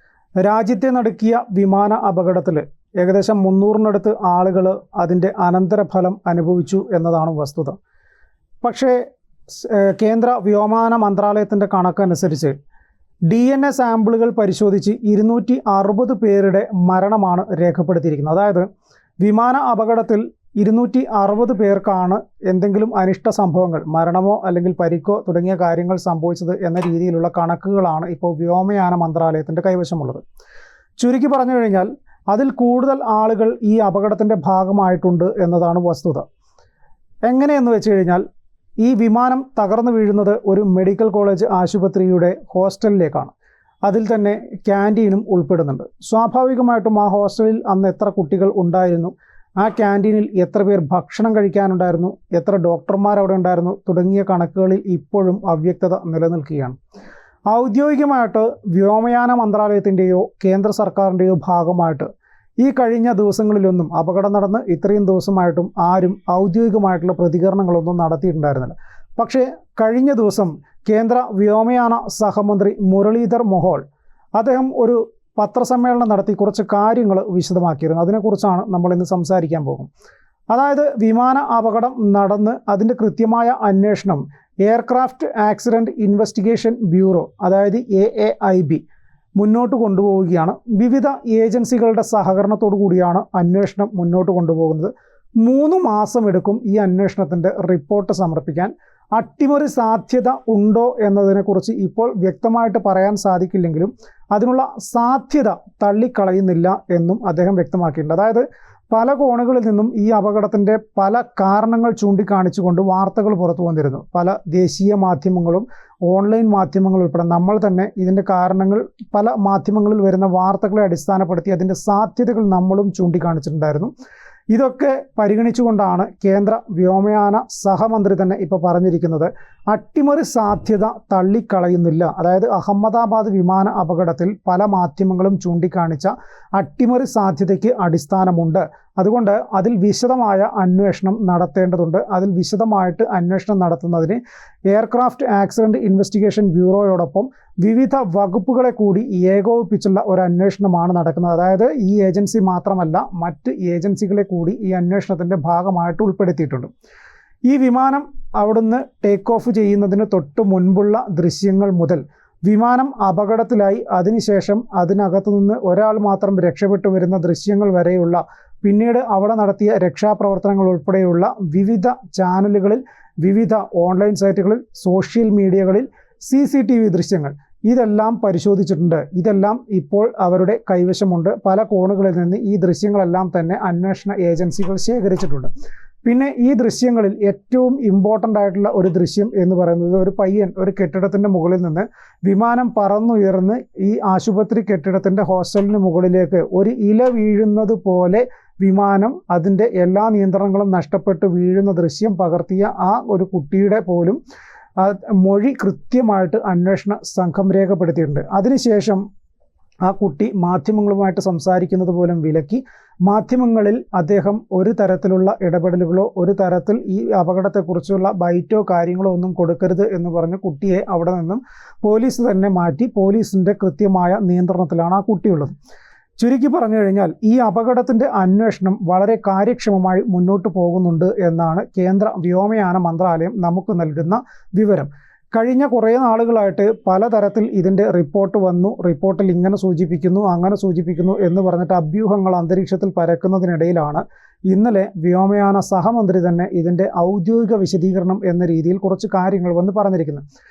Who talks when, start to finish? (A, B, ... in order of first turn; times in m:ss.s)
0:00.4-0:07.8 A
0:08.6-0:12.6 A
0:13.3-0:18.7 A
0:19.2-0:30.2 A
0:31.0-0:36.2 A
0:37.2-0:38.2 A
0:38.8-0:43.3 A
0:43.9-0:56.8 A
0:57.5-1:02.1 A
1:02.6-1:13.8 A
1:14.4-1:19.9 A
1:20.5-1:28.8 A
1:29.4-2:03.9 A
2:04.5-2:36.7 A
2:37.5-3:05.5 A
3:06.0-3:24.2 A
3:24.8-3:29.0 A
3:29.8-3:45.5 A
3:46.2-4:10.2 A